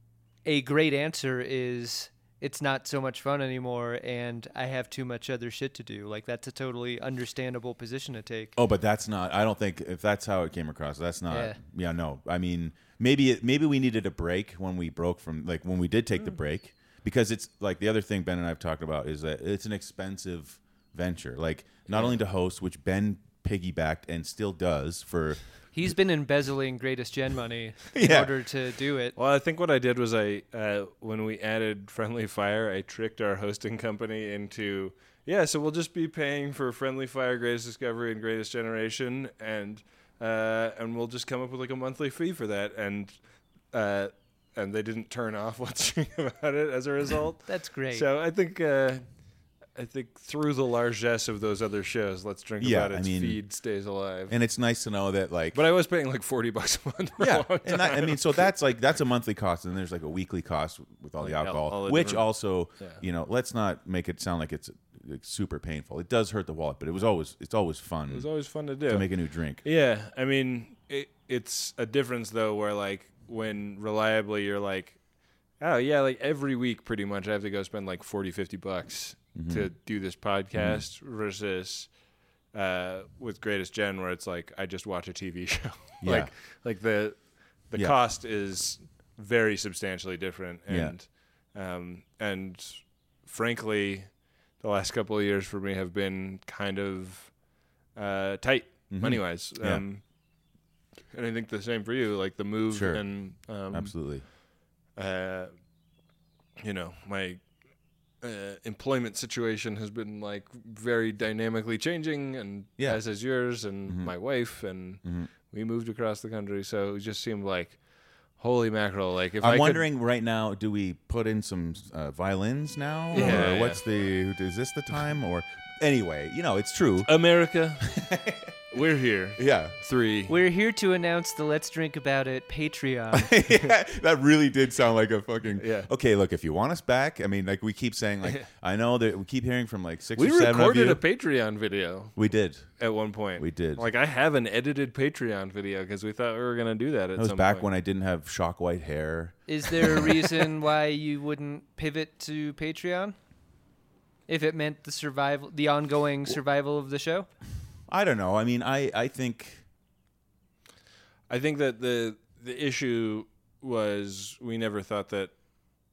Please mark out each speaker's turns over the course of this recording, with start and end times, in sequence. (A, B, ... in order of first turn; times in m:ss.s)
0:00.4-0:08.5 A
0:08.6-0:25.4 B
0:11.3-0:11.6 A
0:21.9-0:22.2 C
0:25.7-0:29.2 A
0:27.9-0:28.3 B
0:29.2-0:54.4 C
0:47.5-0:48.0 A
0:52.6-0:53.4 B
0:54.3-0:55.6 B
0:55.5-0:58.5 C
0:57.2-1:09.6 B
1:01.2-1:03.0 C
1:08.1-1:09.1 C
1:09.6-1:15.0 C
1:15.6-1:22.0 C
1:19.4-1:19.7 B
1:20.5-1:20.8 B
1:22.5-1:40.1 C
1:26.0-1:26.3 B
1:30.7-1:31.0 B
1:38.9-1:39.8 B
1:41.1-1:44.3 C
1:42.7-1:44.3 B
1:44.9-1:45.5 C
1:46.6-1:47.5 C
1:48.2-1:59.9 C
1:52.8-1:54.2 B
1:55.0-1:55.3 B
1:59.4-2:08.6 B
2:03.1-2:03.8 C
2:03.2-2:03.4 A
2:07.0-2:08.0 C
2:08.7-2:10.4 C
2:09.4-2:09.8 B
2:10.3-2:13.4 A
2:13.1-2:21.0 B
2:15.6-2:15.9 C
2:20.2-2:22.2 C
2:22.2-2:22.8 B
2:22.8-2:27.7 C
2:23.4-2:23.9 B
2:27.2-2:30.1 B
2:29.5-2:33.2 A
2:34.3-2:37.3 A
2:37.9-2:39.6 B
2:41.3-2:45.3 C